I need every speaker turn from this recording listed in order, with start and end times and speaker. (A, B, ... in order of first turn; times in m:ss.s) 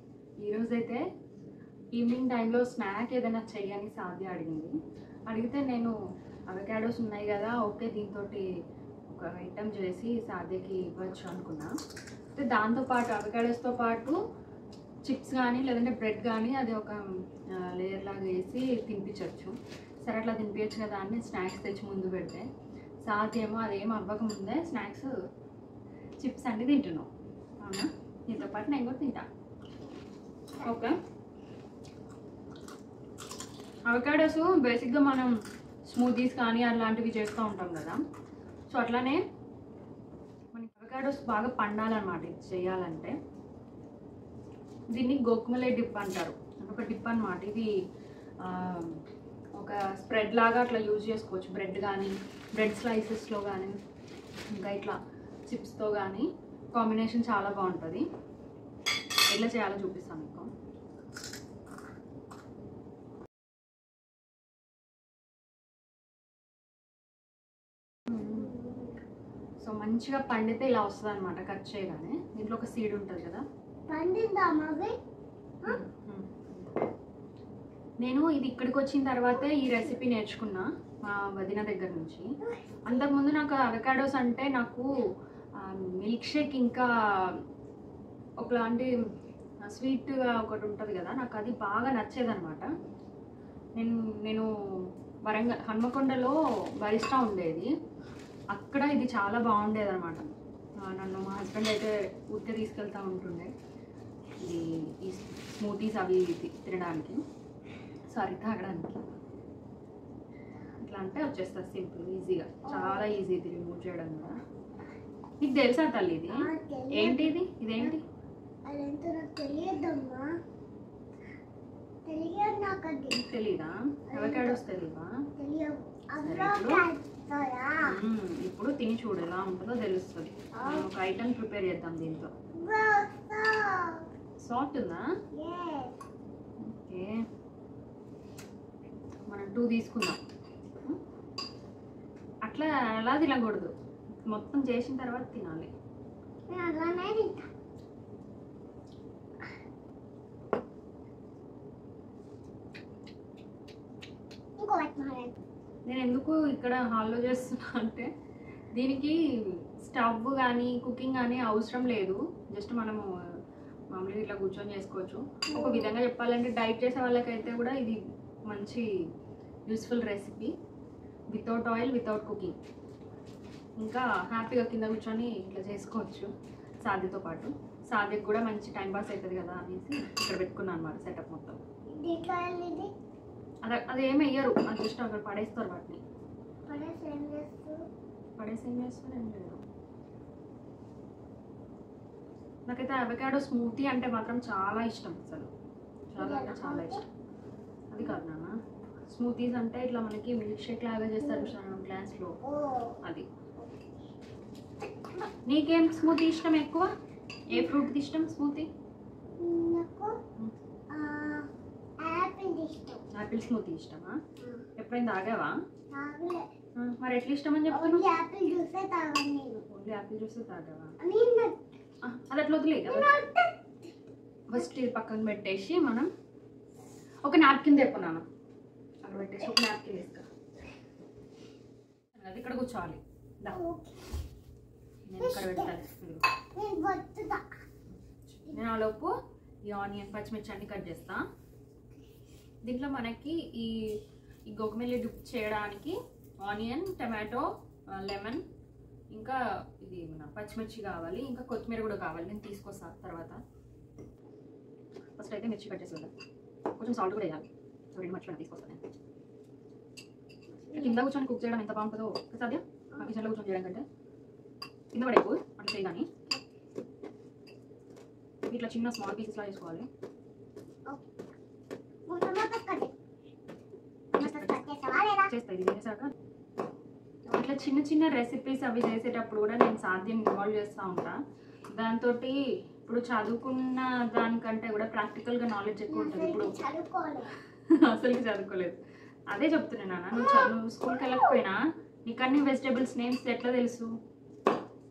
0:00.4-0:01.0 A
0:01.9-0:04.7 A
0:05.3-0:05.9 A
0:06.5-0:08.4 A
0:09.1-0:11.7 A
0:12.4-0:14.2 A
0:15.0-0:22.5 A
0:23.0-0:25.1 A
0:26.2-0:27.1 A
0:27.6-0:29.3 A
0:30.6-0:30.9 A
0:33.9-0:35.3 A
0:35.9-0:38.0 A
0:38.7-0:39.2 A
0:40.5-0:43.1 A
0:44.9-0:47.7 A
0:48.4-0:49.0 A
0:49.6-0:53.8 A
0:54.5-0:55.0 A
0:55.5-0:58.0 A
0:59.3-1:00.5 A
1:08.1-1:08.5 A
1:08.2-1:09.0 B
1:09.6-1:13.4 A
1:13.9-1:14.9 B
1:15.7-1:16.7 A
1:18.0-1:22.3 A
1:19.4-1:19.8 B
1:22.4-1:23.1 B
1:22.9-1:25.0 A
1:25.6-1:27.4 A
1:28.4-1:28.9 A
1:29.6-1:32.7 A
1:33.8-1:34.5 A
1:35.2-1:37.7 A
1:38.5-1:40.3 A
1:40.8-1:43.5 A
1:44.4-1:47.2 A
1:48.1-1:49.0 A
1:50.8-1:54.4 A
1:52.7-1:53.2 B
1:55.4-1:58.0 A
1:56.3-1:57.9 B
1:58.7-2:00.3 B
2:02.0-2:03.2 B
2:03.1-2:05.1 A
2:04.1-2:04.6 B
2:05.4-2:07.8 B
2:06.2-2:06.8 A
2:07.9-2:12.3 A
2:10.5-2:10.9 B
2:12.6-2:14.0 B
2:14.4-2:15.0 A
2:15.4-2:16.0 B
2:16.6-2:17.2 A
2:19.3-2:20.2 A
2:22.4-2:23.7 A
2:24.3-2:25.7 A
2:26.5-2:27.5 B
2:34.6-2:35.4 B
2:35.8-2:38.1 A
2:38.7-2:43.0 A
2:43.9-2:48.9 A
2:45.5-2:45.9 B
2:49.7-2:50.5 A
2:51.3-2:52.6 A
2:53.8-2:56.3 A
2:56.8-3:01.6 A
3:02.0-3:02.9 B
3:03.6-3:06.0 A
3:06.7-3:07.8 B
3:08.4-3:09.6 A
3:12.7-3:15.5 A
3:16.1-3:17.0 A
3:16.2-3:17.0 B
3:17.9-3:18.5 A
3:19.1-3:22.4 A
3:21.2-3:21.5 B
3:22.4-3:23.0 B
3:23.6-3:23.9 B
3:25.4-3:26.9 A
3:27.5-3:28.7 A
3:27.5-3:27.8 B
3:29.4-3:30.1 B
3:30.9-3:31.5 B
3:32.0-3:33.0 B
3:33.1-3:34.2 A
3:34.8-3:35.5 A
3:35.9-3:36.4 B
3:36.8-3:38.0 A
3:37.7-3:39.6 B
3:39.7-3:40.9 A
3:41.0-3:41.6 B
3:42.0-3:43.1 A
3:42.8-3:43.9 B
3:44.5-3:46.1 A
3:47.2-3:48.2 A
3:49.0-3:50.2 A
3:52.1-3:53.6 A
3:53.5-3:54.1 B
3:55.1-3:56.2 A
3:55.2-3:55.7 B
3:56.5-3:57.4 B
3:57.9-3:59.1 A
3:59.6-4:01.2 A
4:02.6-4:03.7 A
4:04.5-4:08.4 A
4:09.1-4:13.4 A
4:15.2-4:16.1 A
4:16.8-4:18.8 A
4:20.6-4:21.0 B
4:20.7-4:23.8 A
4:24.9-4:26.1 A
4:28.4-4:29.9 A
4:32.1-4:32.9 B
4:34.1-4:34.6 A
4:34.2-4:35.3 B
4:35.3-4:36.1 A
4:37.3-4:41.2 A
4:41.7-4:46.5 A
4:45.9-4:47.3 B
4:47.7-4:48.8 A
4:49.3-4:53.9 A
4:50.1-4:51.4 B